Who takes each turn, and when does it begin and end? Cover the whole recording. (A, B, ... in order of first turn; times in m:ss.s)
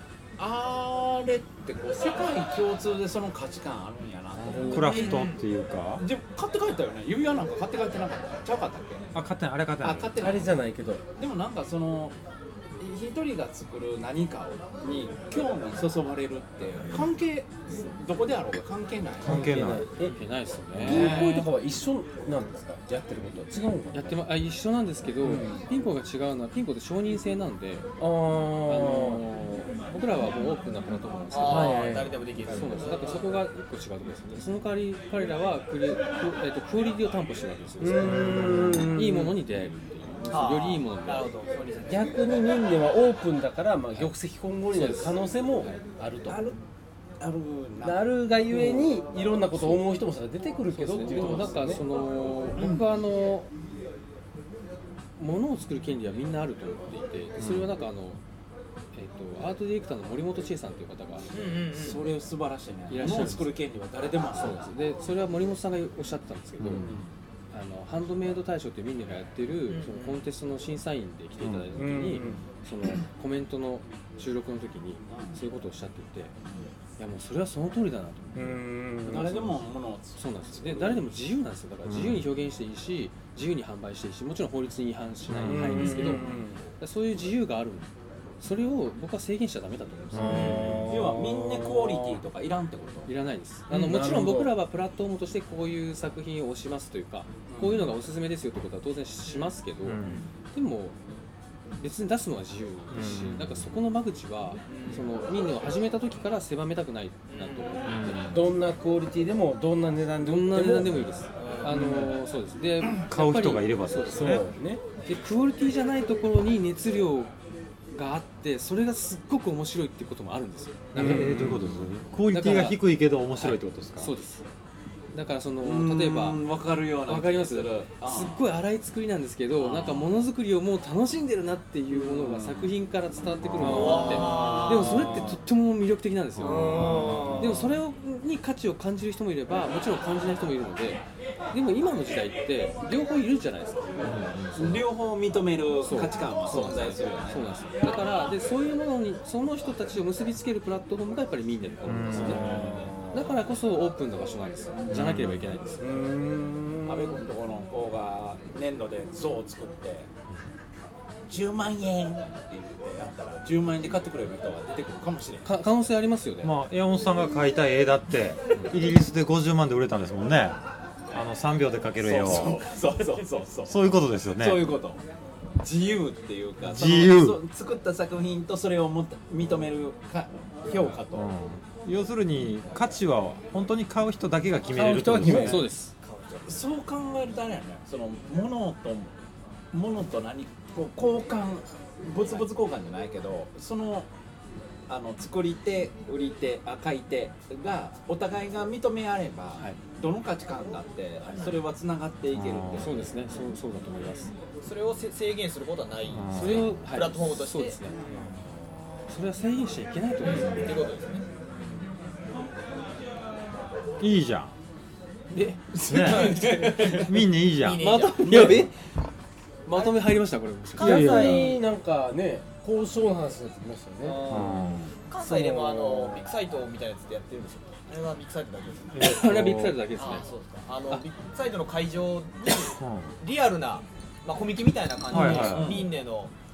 0:00.4-0:05.3 A
0:04.3-0:05.1 B
0:04.7-0:06.0 C
0:04.8-0:05.4 D
0:06.0-0:09.1 A
0:09.1-0:10.3 C
0:09.8-0:12.2 A
0:10.2-0:11.0 B
0:12.8-0:19.6 A
0:19.2-0:19.9 C
0:19.2-0:20.2 B
0:20.0-0:21.2 E
0:20.8-0:21.5 A
0:20.8-0:24.2 B
0:23.9-0:27.9 E
0:25.2-0:25.6 B
0:28.0-0:29.2 B
0:28.6-0:41.3 E
0:31.3-0:33.3 D
0:31.4-0:32.2 B
0:37.8-0:39.4 B
0:38.0-0:38.8 C
0:40.3-0:42.1 D
0:41.8-0:46.4 B
0:44.7-0:45.8 E
0:46.2-0:46.6 A
0:47.2-0:48.9 A
0:47.8-0:51.8 B
0:50.7-0:53.5 E
0:51.1-0:51.4 A
0:52.5-0:52.9 A
0:55.2-0:58.2 E
0:57.4-0:57.7 C
0:58.9-1:01.3 E
1:01.3-1:02.1 D
1:01.7-1:04.7 A
1:02.9-1:03.6 E
1:04.3-1:06.8 E
1:06.6-1:07.0 C
1:06.8-1:07.1 A
1:07.5-1:16.3 E
1:09.7-1:10.2 D
1:11.4-1:11.7 C
1:11.7-1:12.4 B
1:15.1-1:15.4 A
1:16.4-1:16.7 A
1:17.0-1:19.6 E
1:18.3-1:19.6 B
1:19.0-1:21.0 A
1:20.1-1:26.3 E
1:21.8-1:22.3 C
1:25.3-1:26.2 C
1:25.4-1:26.6 B
1:26.8-1:30.8 E
1:30.1-1:31.4 C
1:30.3-1:30.6 D
1:30.4-1:33.1 A
1:30.7-1:32.2 B
1:33.0-1:40.0 E
1:33.7-1:34.5 B
1:37.5-1:37.9 A
1:39.3-1:40.3 D
1:39.8-1:40.2 C
1:40.5-1:41.0 E
1:41.8-1:48.3 E
1:42.9-1:43.7 C
1:44.7-1:45.1 D
1:47.3-1:47.7 D
1:47.8-1:48.4 C
1:48.3-1:51.1 B
1:50.2-1:54.4 E
1:51.4-1:51.7 D
1:51.6-1:52.1 B
1:52.8-1:54.4 C
1:54.1-1:54.8 B
1:55.0-1:57.3 E
1:57.9-2:01.4 E
2:00.9-2:04.1 C
2:01.0-2:01.5 B
2:01.2-2:01.9 A
2:02.3-2:02.8 E
2:03.4-2:04.4 E
2:05.1-2:06.4 E
2:05.6-2:08.5 A
2:07.0-2:24.4 E
2:09.5-2:10.1 A
2:11.9-2:12.8 A
2:13.4-2:13.9 C
2:13.6-2:15.1 D
2:13.9-2:14.2 B
2:13.9-2:15.4 A
2:16.4-2:17.6 D
2:16.7-2:17.7 A
2:24.0-2:24.8 C
2:24.5-2:27.5 A
2:25.8-2:32.4 E
2:31.8-2:32.9 C
2:32.1-2:33.2 A
2:33.1-2:36.0 E
2:34.7-2:35.1 A
2:34.9-2:35.5 C
2:35.8-2:37.2 B
2:36.8-2:40.1 A
2:41.3-2:45.5 A
2:45.4-2:46.5 E
2:46.4-2:50.6 C
2:51.1-2:52.6 C
2:52.0-2:55.0 A
2:52.9-2:53.2 D
2:53.6-2:54.7 C
2:55.6-3:01.3 A
2:56.6-2:57.4 C
3:01.1-3:05.6 C
3:04.7-3:05.7 B
3:04.8-3:05.9 E
3:06.0-3:06.6 D
3:06.4-3:09.1 A
3:09.7-3:14.1 A
3:14.9-3:23.1 A
3:21.3-3:21.6 D
3:22.3-3:22.9 C
3:22.7-3:24.3 E
3:24.0-3:28.4 D
3:26.1-3:26.8 C
3:26.3-3:28.0 E
3:29.1-3:30.8 E
3:30.2-3:31.9 D
3:34.0-3:34.5 C
3:35.3-3:37.0 E
3:35.8-3:36.5 A
3:35.8-3:38.6 C
3:36.0-3:38.5 D
3:37.8-3:38.8 E
3:39.6-3:41.5 E
3:39.7-3:40.1 D
3:40.8-3:41.6 D
3:40.8-3:44.4 B
3:40.8-3:41.5 C
3:44.0-3:49.1 D
3:44.3-3:44.9 C
3:44.6-3:44.9 A
3:45.2-3:46.3 B
3:48.9-3:49.8 C
3:49.0-3:50.3 E
3:50.0-3:56.3 D
3:52.7-3:53.1 C
3:55.1-3:55.8 C
3:55.2-3:55.9 A